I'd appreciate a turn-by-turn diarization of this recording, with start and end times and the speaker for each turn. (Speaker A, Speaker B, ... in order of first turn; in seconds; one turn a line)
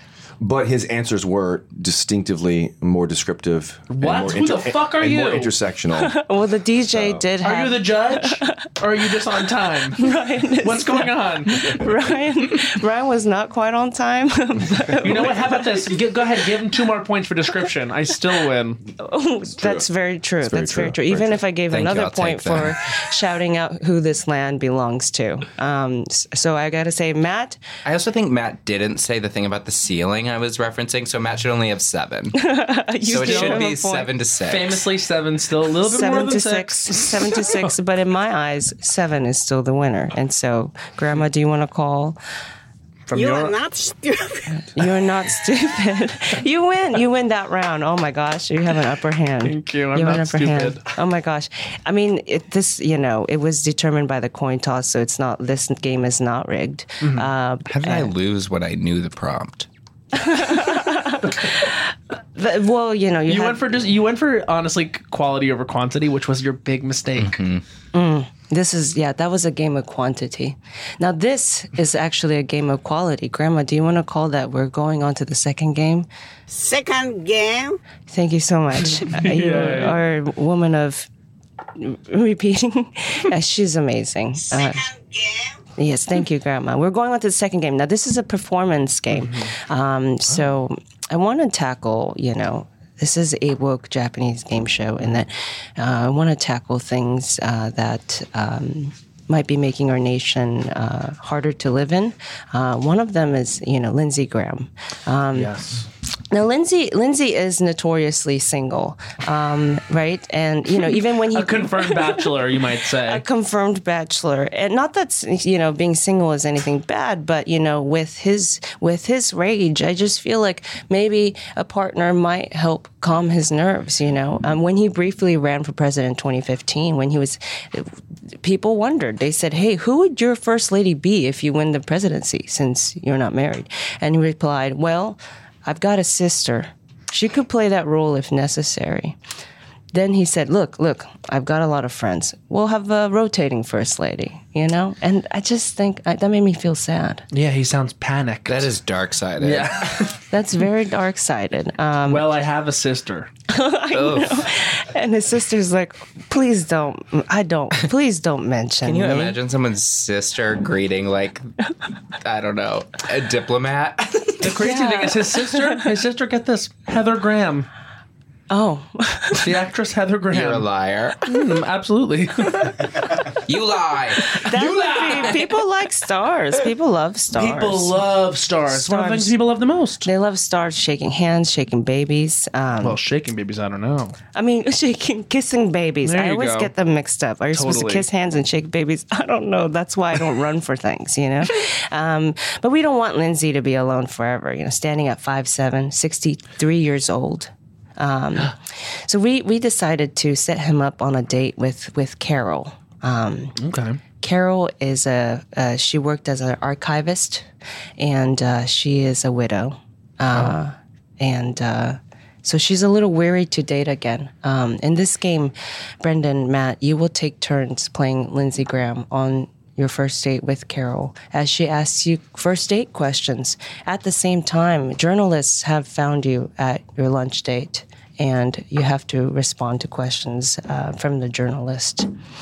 Speaker A: 0.4-6.2
Speaker B: 3.9-5.5
Speaker C: 6.0-8.7
Speaker A: 6.9-7.2
Speaker B: 7.4-10.1
Speaker C: 10.0-15.9
Speaker B: 10.6-11.8
Speaker B: 15.0-18.8
Speaker C: 19.0-27.6
Speaker A: 19.5-19.9
Speaker A: 20.4-21.4
Speaker D: 21.7-22.8
Speaker D: 27.9-32.4
Speaker C: 32.4-34.1
Speaker D: 33.1-34.8
Speaker B: 33.1-33.7
Speaker B: 34.5-37.7
Speaker C: 35.9-42.2
Speaker B: 43.1-43.5
Speaker E: 43.1-44.8
Speaker C: 44.5-58.1
Speaker B: 49.4-50.8
Speaker B: 57.0-57.3
Speaker D: 57.7-59.7
Speaker C: 60.1-61.8
Speaker C: 62.4-63.8
Speaker B: 63.3-67.4
Speaker D: 67.2-67.6
Speaker C: 67.9-76.1
Speaker E: 76.5-77.8
Speaker C: 78.1-81.1
Speaker B: 79.0-80.0
Speaker C: 81.8-84.8
Speaker E: 84.5-85.6
Speaker C: 85.8-105.5
Speaker B: 89.1-89.5
Speaker B: 105.3-105.9
Speaker C: 106.3-112.3
Speaker B: 111.3-113.2
Speaker C: 113.0-139.2
Speaker C: 139.9-147.2
Speaker B: 147.3-148.7
Speaker D: 148.5-150.0
Speaker B: 149.4-150.2
Speaker C: 150.3-152.3
Speaker B: 152.1-153.3
Speaker C: 153.5-159.4
Speaker D: 153.9-154.5
Speaker D: 158.8-161.5
Speaker D: 162.2-164.6
Speaker B: 164.4-167.7
Speaker C: 164.6-165.8
Speaker C: 168.5-169.5
Speaker B: 169.4-170.7
Speaker D: 170.3-171.2
Speaker B: 171.2-173.0
Speaker D: 173.4-174.4
Speaker C: 174.4-178.0
Speaker B: 174.4-175.5
Speaker B: 177.4-180.1
Speaker C: 178.7-179.3
Speaker C: 180.0-183.0
Speaker B: 182.8-184.2
Speaker C: 184.3-198.5
Speaker B: 186.0-186.7
Speaker B: 187.5-188.1
Speaker C: 199.1-203.6
Speaker B: 203.6-204.0
Speaker C: 204.2-207.5
Speaker C: 208.0-232.1